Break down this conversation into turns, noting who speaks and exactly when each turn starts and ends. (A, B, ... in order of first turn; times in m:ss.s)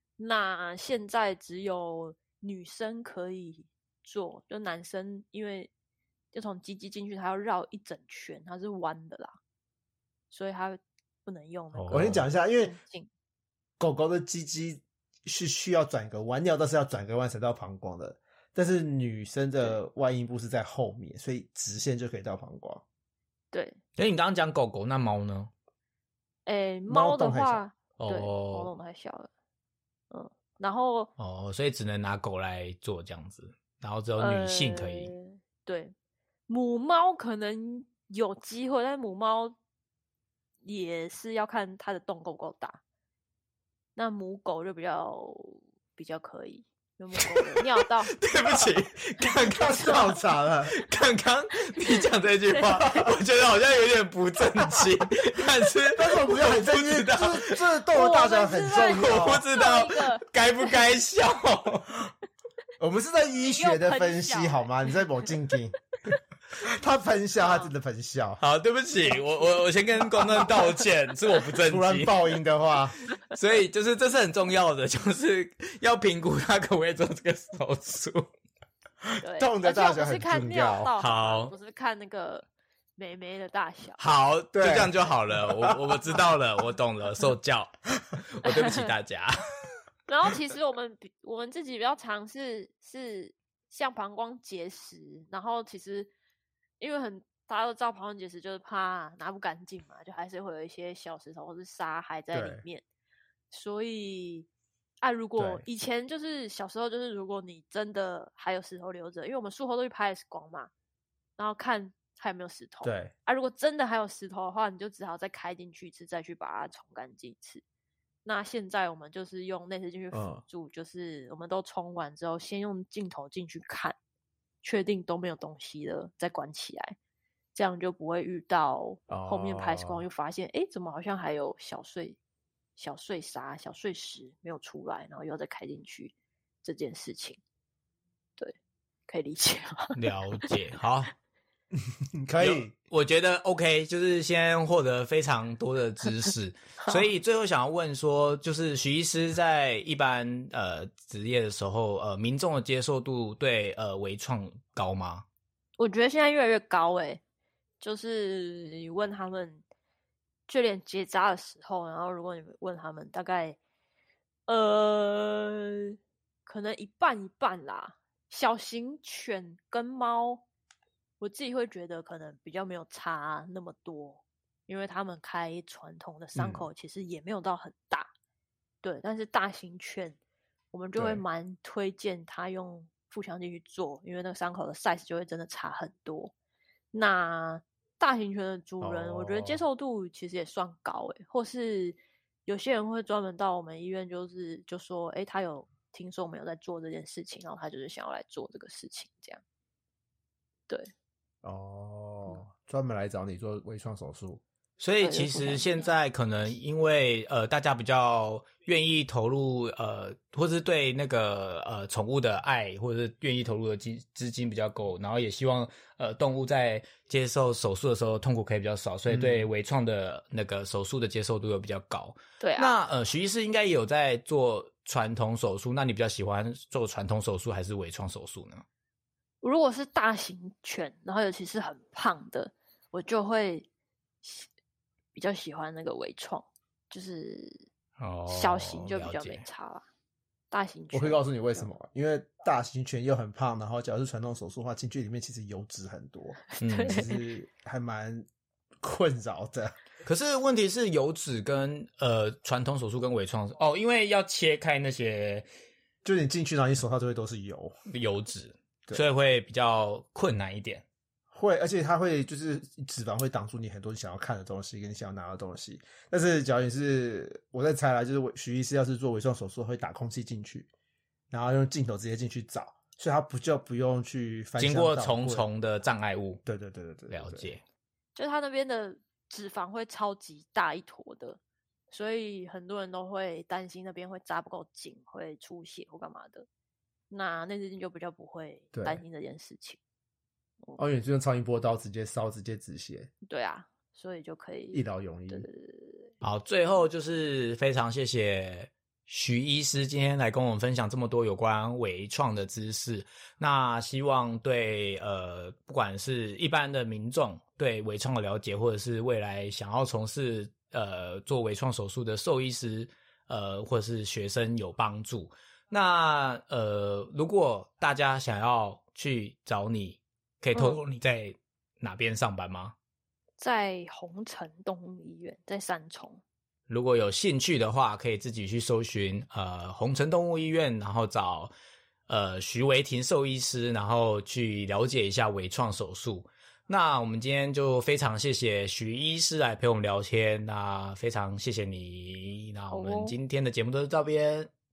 0:00.2-0:05.7 A
0:06.3-0:09.4 A
0:10.3-0:13.1 A
0:11.7-0:12.3 B
0:11.9-0:12.8 C
0:13.8-0:22.8 C
0:23.5-0:23.8 A
0:24.0-0:25.5 B
0:26.5-0:29.3 A
0:26.9-0:27.6 C
0:28.0-0:28.7 B
0:30.1-0:31.1 A
0:31.2-0:35.1 B
0:34.2-0:35.9 A
0:36.5-0:39.6 A
0:40.6-0:42.8 A
0:44.0-0:48.3 A
0:47.6-0:50.1 B
0:49.5-0:50.7 C
0:49.7-0:50.2 A
0:50.7-0:57.6 B
0:51.7-0:52.8 A
0:55.9-0:59.4 C
0:57.9-1:00.8 A
0:58.9-1:01.9 B
1:02.8-1:05.8 C
1:03.4-1:05.3 A
1:06.6-1:08.4 C
1:07.4-1:07.7 A
1:08.4-1:12.2 B
1:11.6-1:13.0 C
1:13.2-1:18.3 B
1:19.1-1:20.9 C
1:19.2-1:24.0 A
1:21.0-1:21.5 B
1:24.0-1:29.4 B
1:24.5-1:26.2 C
1:28.4-1:28.9 A
1:30.1-1:36.1 A
1:36.8-1:42.8 A
1:42.3-1:42.6 C
1:43.5-1:44.5 A
1:45.0-1:50.7 A
1:45.4-1:45.7 C
1:51.4-1:57.6 A
1:52.8-1:53.1 C
1:58.2-2:04.0 A
2:00.1-2:00.4 C
2:04.6-2:07.0 A
2:07.5-2:12.2 A
2:09.1-2:10.0 C
2:12.8-2:17.4 A
2:19.1-2:20.5 A
2:20.0-2:21.1 B
2:21.7-2:22.7 C
2:22.4-2:35.2 B
2:35.8-2:37.2 A
2:37.8-2:39.6 A
2:40.5-2:43.6 A
2:44.5-2:50.4 A
2:51.2-2:58.1 A
2:56.4-2:56.7 C
2:58.8-3:00.2 A
3:00.7-3:06.3 A
3:01.0-3:01.2 C
3:06.9-3:19.4 A
3:08.8-3:09.6 C
3:21.4-3:24.4 C
3:24.8-3:48.6 B
3:25.0-3:25.9 A
3:39.1-3:39.5 C
3:42.4-3:42.8 A
3:49.4-3:53.7 A
3:55.2-3:57.7 A
3:58.0-3:59.4 B
3:58.3-3:59.8 A
4:00.5-4:01.7 A
4:00.9-4:08.3 C
4:06.6-4:07.2 A
4:06.6-4:07.1 B
4:08.8-4:09.8 C
4:10.0-4:15.5 B
4:16.0-4:17.7 C
4:17.9-4:20.8 B
4:21.3-4:30.7 C
4:31.3-4:35.5 C
4:34.6-4:36.4 B
4:36.5-4:37.5 C
4:37.1-4:37.6 B
4:38.2-4:46.5 A
4:47.1-4:49.8 A
4:48.7-4:49.0 C
4:50.8-4:53.1 C
4:53.2-4:56.1 A
4:54.7-4:55.5 C
4:56.2-5:22.8 B
5:20.5-5:20.8 A
5:23.4-5:26.2 A
5:26.7-5:31.5 B
5:32.1-5:44.5 B
5:42.7-5:43.2 A